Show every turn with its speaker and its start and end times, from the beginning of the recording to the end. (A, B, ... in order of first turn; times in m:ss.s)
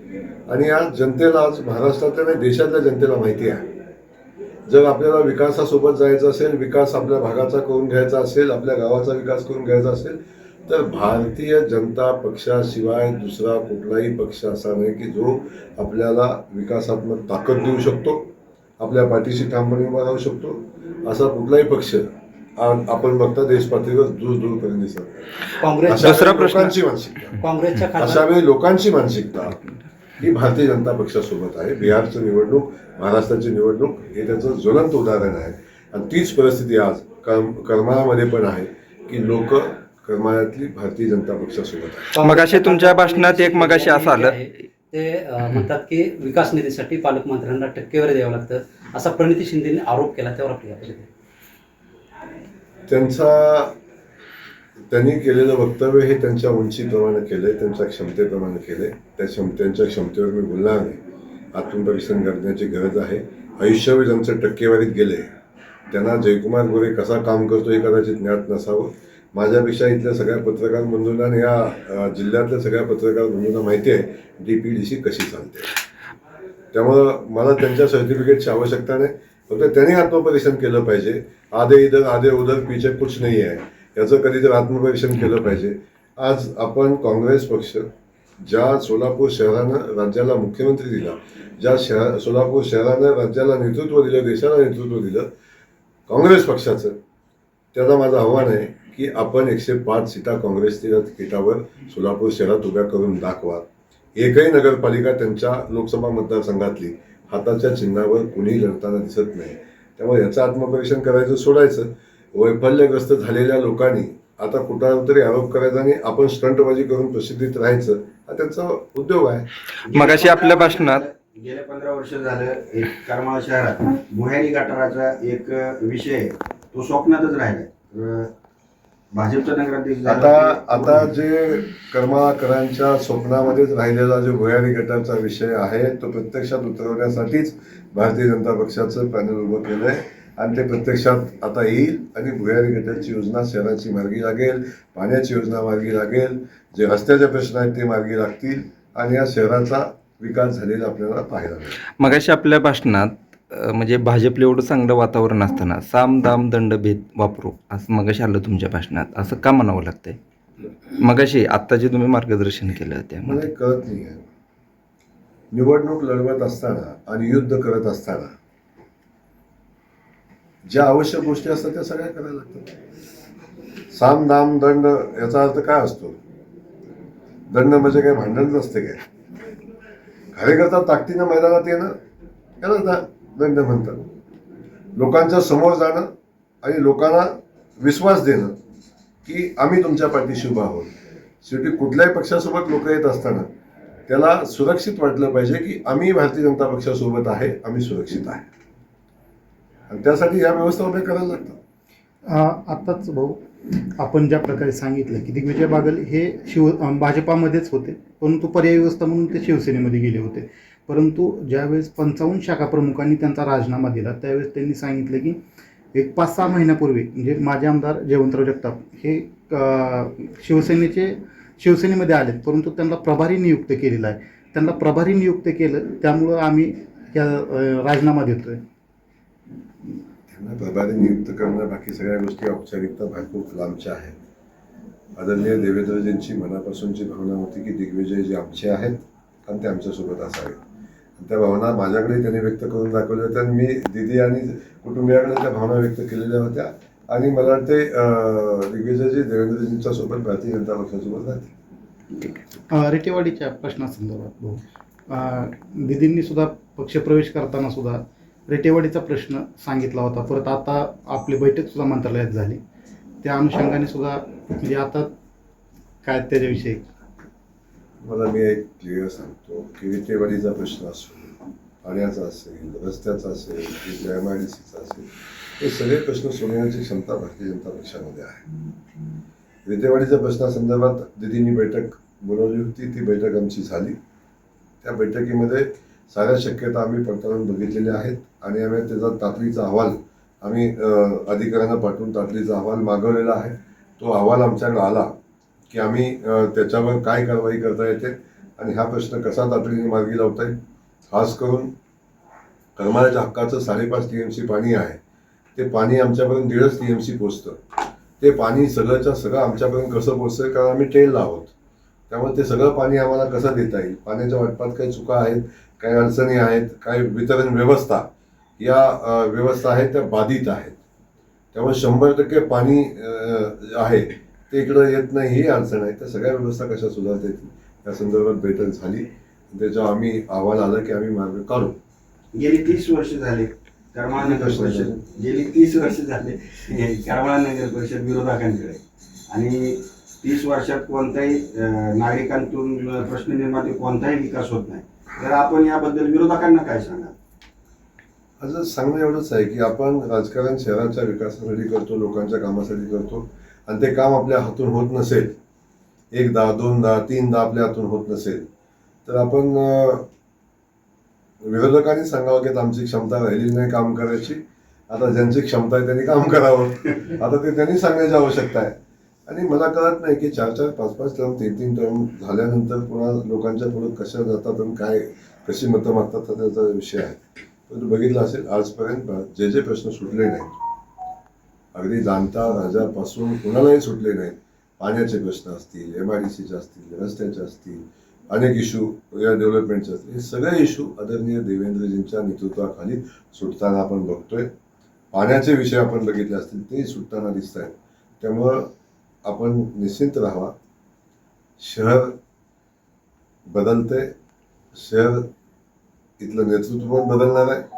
0:00.5-0:03.6 A
0:04.7-0:27.4 A
0:25.6-0:26.7 B
0:26.0-0:26.7 C
0:27.4-0:28.3 B
0:28.0-0:29.6 A
0:30.2-0:42.1 A
0:42.1-0:51.1 B
0:42.2-0:44.5 C
0:52.9-0:53.7 A
0:54.9-1:01.0 A
1:01.5-1:05.3 A
1:05.9-1:15.7 A
1:16.7-1:27.9 A
1:28.4-1:35.3 A
1:36.1-1:37.0 A
1:37.7-1:43.6 A
1:44.2-1:59.5 A
1:59.8-2:08.3 D
1:59.9-2:01.0 C
2:09.1-2:11.1 D
2:10.1-2:31.8 A
2:32.0-2:40.2 C
2:41.0-2:43.5 C
2:43.2-2:44.2 A
2:45.5-2:48.3 A
2:50.7-2:52.7 A
2:53.9-2:56.2 A
2:57.5-2:59.0 A
3:00.3-3:01.9 A
3:02.6-3:04.1 A
3:04.9-3:06.1 A
3:06.6-3:08.5 A
3:09.2-3:10.9 A
3:11.4-3:13.5 A
3:14.1-3:18.4 A
3:19.9-3:21.6 A
3:22.2-3:23.4 E
3:24.0-3:35.4 E
3:35.9-3:48.6 E
3:50.3-3:54.2 A
3:55.2-4:00.6 A
4:01.2-4:11.5 A
4:12.7-4:22.6 E
4:23.2-4:25.1 E
4:26.0-4:26.9 E
4:28.0-4:38.4 A
4:39.6-4:44.0 A
4:44.8-4:55.1 A
4:55.7-5:00.6 A
5:01.1-5:01.7 A
5:02.8-5:05.0 A
5:05.6-5:07.6 A
5:08.2-5:11.5 A
5:12.1-5:18.1 A
5:18.6-5:20.8 A
5:21.5-5:31.8 A
5:32.3-5:47.1 D
5:34.2-5:35.0 A
5:48.4-5:55.3 A
5:56.1-5:58.5 A
5:59.0-6:00.1 A
6:01.4-6:08.7 A
6:09.3-6:20.6 A
6:21.7-6:34.5 A
6:35.1-6:38.7 A
6:39.2-6:40.5 A
6:41.6-6:42.2 A
6:43.5-6:44.1 A
6:44.7-6:45.3 A
6:46.2-6:47.6 A